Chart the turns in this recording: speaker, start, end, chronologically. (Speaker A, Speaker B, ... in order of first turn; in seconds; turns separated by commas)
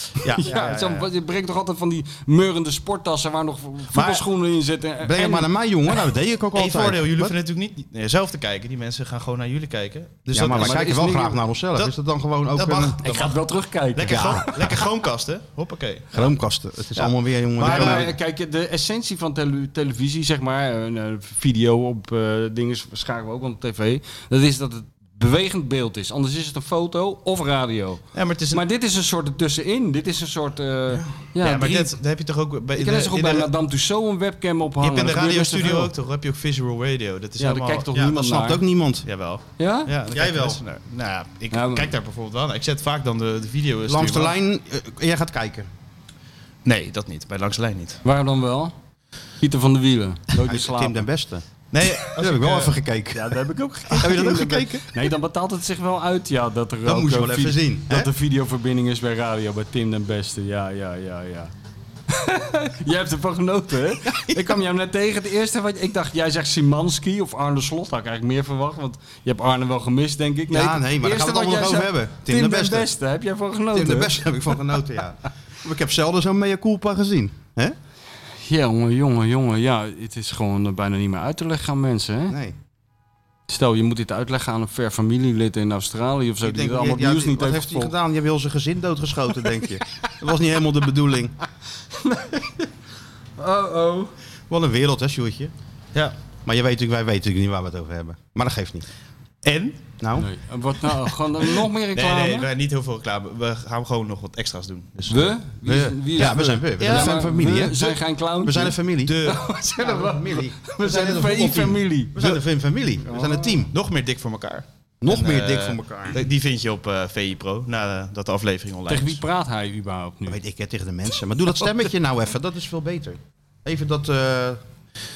Speaker A: 0.2-1.1, Speaker B: 0.4-5.5, Speaker A: 3.9-4.2, Speaker C: 5.0-7.3, Speaker A: 6.5-10.8, Speaker C: 10.3-13.0, Speaker B: 10.5-11.4, Speaker A: 12.5-13.4, Speaker B: 13.0-14.6, Speaker A: 13.9-16.3, Speaker C: 14.1-14.8, Speaker C: 16.1-18.1, Speaker A: 16.9-18.1, Speaker B: 17.6-31.9, Speaker A: 28.1-28.6, Speaker A: 31.4-33.5, Speaker B: 32.8-35.9, Speaker A: 34.8-37.9, Speaker B: 37.4-38.6, Speaker C: 37.9-39.1, Speaker A: 39.0-44.4, Speaker B: 39.6-39.9, Speaker C: 40.1-40.6, Speaker B: 41.5-41.9, Speaker C: 43.9-45.7, Speaker A: 46.6-48.0, Speaker B: 48.0-48.7, Speaker B: 49.4-51.1, Speaker C: 50.4-51.4, Speaker A: 51.7-52.8, Speaker C: 52.0-53.4, Speaker B: 53.1-61.5, Speaker C: 53.9-54.9, Speaker C: 56.9-58.1, Speaker B: 62.1-74.5, Speaker C: 70.5-72.9, Speaker C: 73.7-77.8, Speaker B: 78.4-82.4, Speaker C: 82.3-82.6, Speaker B: 83.5-87.9, Speaker C: 86.4-91.3, Speaker B: 92.0-92.7, Speaker B: 93.4-94.1, Speaker C: 94.5-95.5, Speaker C: 96.5-98.9, Speaker A: 99.4-99.8, Speaker C: 100.0-100.3, Speaker B: 100.2-102.5, Speaker A: 101.9-105.4, Speaker B: 105.1-112.1, Speaker C: 105.7-113.7, Speaker A: 106.2-107.2, Speaker A: 109.0-109.4, Speaker B: 113.0-113.6, Speaker A: 113.7-119.2, Speaker C: 115.0-116.2, Speaker B: 118.9-120.4, Speaker C: 120.3-124.6